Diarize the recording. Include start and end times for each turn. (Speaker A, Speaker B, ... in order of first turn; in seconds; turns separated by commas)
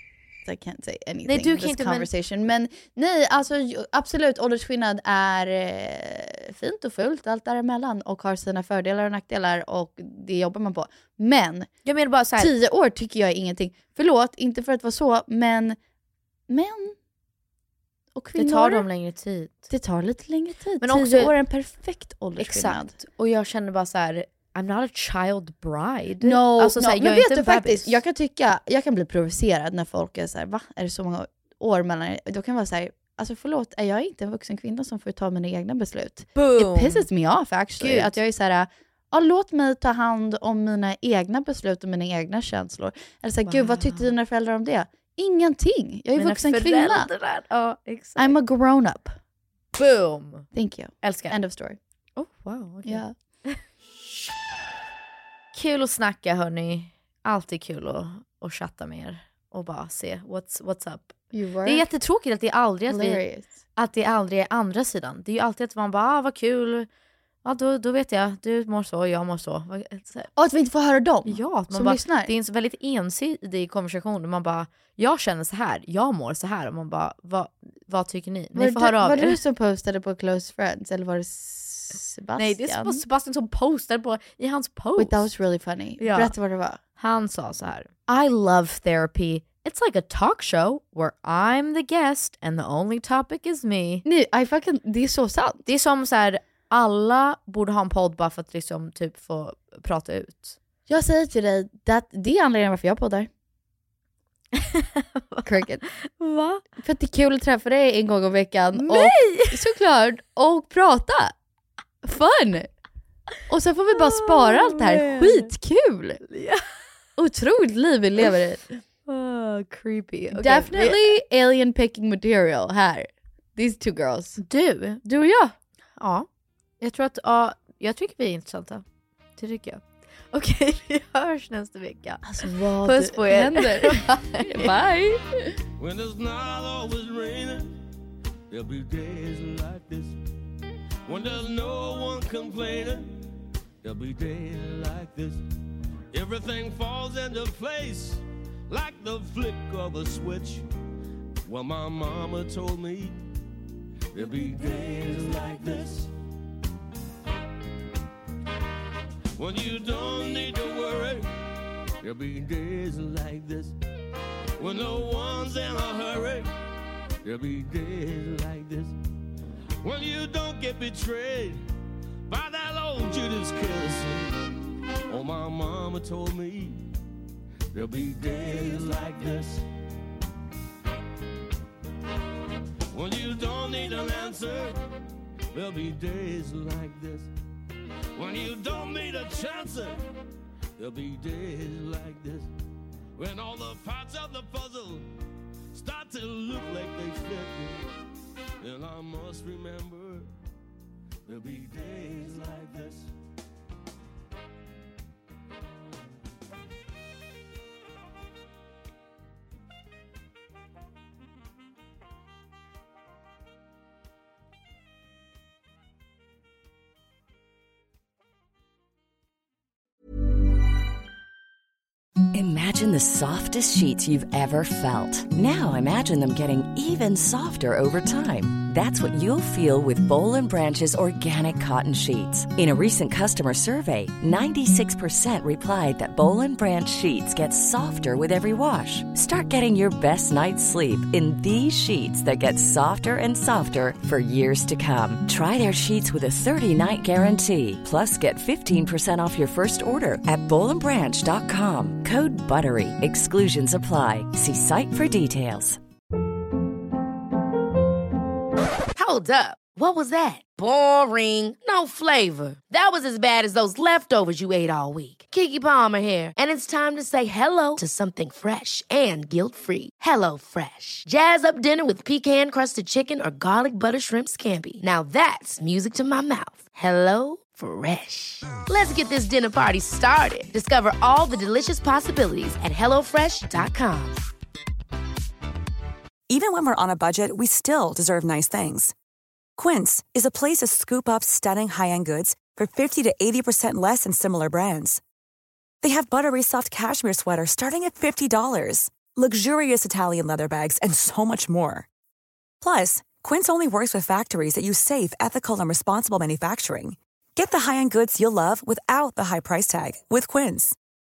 Speaker A: 0.5-11.7, Speaker B: 1.3-2.1, Speaker B: 11.8-12.5, Speaker A: 12.4-15.8, Speaker A: 16.5-16.9, Speaker A: 18.1-18.9, Speaker B: 18.4-19.7, Speaker A: 19.7-23.0, Speaker B: 20.8-21.3, Speaker B: 22.4-28.0, Speaker A: 26.2-47.1, Speaker B: 36.4-37.1, Speaker B: 37.8-38.2, Speaker B: 43.5-44.1, Speaker B: 46.2-48.4, Speaker A: 48.2-49.1, Speaker B: 49.8-50.5, Speaker A: 50.5-51.8, Speaker B: 51.0-51.4, Speaker B: 52.2-53.6, Speaker A: 52.9-53.1, Speaker B: 55.5-63.2, Speaker A: 61.3-61.9, Speaker A: 62.9-63.5, Speaker B: 63.8-66.9, Speaker B: 67.4-70.3, Speaker A: 70.4-72.3, Speaker B: 71.3-79.4, Speaker A: 78.5-83.0, Speaker B: 82.4-85.3, Speaker A: 85.0-86.8, Speaker B: 86.0-86.3, Speaker B: 87.0-94.0, Speaker A: 94.0-95.7, Speaker B: 95.7-100.6, Speaker A: 100.9-103.3, Speaker B: 104.6-105.5, Speaker A: 105.5-105.8, Speaker B: 106.0-106.6, Speaker A: 106.8-111.3, Speaker B: 108.8-109.5, Speaker A: 112.0-112.7, Speaker A: 113.5-116.2, Speaker B: 114.1-115.5, Speaker B: 116.3-116.6, Speaker A: 117.2-118.7, Speaker B: 119.1-121.1, Speaker A: 120.3-124.4, Speaker B: 124.4-125.0, Speaker A: 125.0-125.5, Speaker B: 126.0-126.3, Speaker B: 126.8-128.8, Speaker B: 129.4-134.7, Speaker A: 132.2-135.6, Speaker C: 135.8-137.8, Speaker C: 138.5-140.2, Speaker C: 141.1-143.2, Speaker C: 143.8-145.4, Speaker C: 146.1-150.7, Speaker C: 151.4-153.2, Speaker C: 154.1-156.1, Speaker C: 159.4-161.3, Speaker C: 162.0-163.7, Speaker C: 164.6-166.5, Speaker C: 167.2-168.9, Speaker C: 169.8-171.6, Speaker C: 172.3-174.4, Speaker C: 175.1-176.8, Speaker C: 177.7-179.7, Speaker C: 182.9-184.8, Speaker C: 185.5-187.3, Speaker C: 188.2-190.0, Speaker C: 190.8-192.5, Speaker C: 193.2-195.1, Speaker C: 195.7-197.8, Speaker C: 198.6-200.3, Speaker C: 201.3-203.1, Speaker D: 222.3-255.8, Speaker E: 258.9-284.2, Speaker F: 286.3-288.9, Speaker F: 289.6-295.0, Speaker F: 295.8-301.9, Speaker F: 302.6-310.8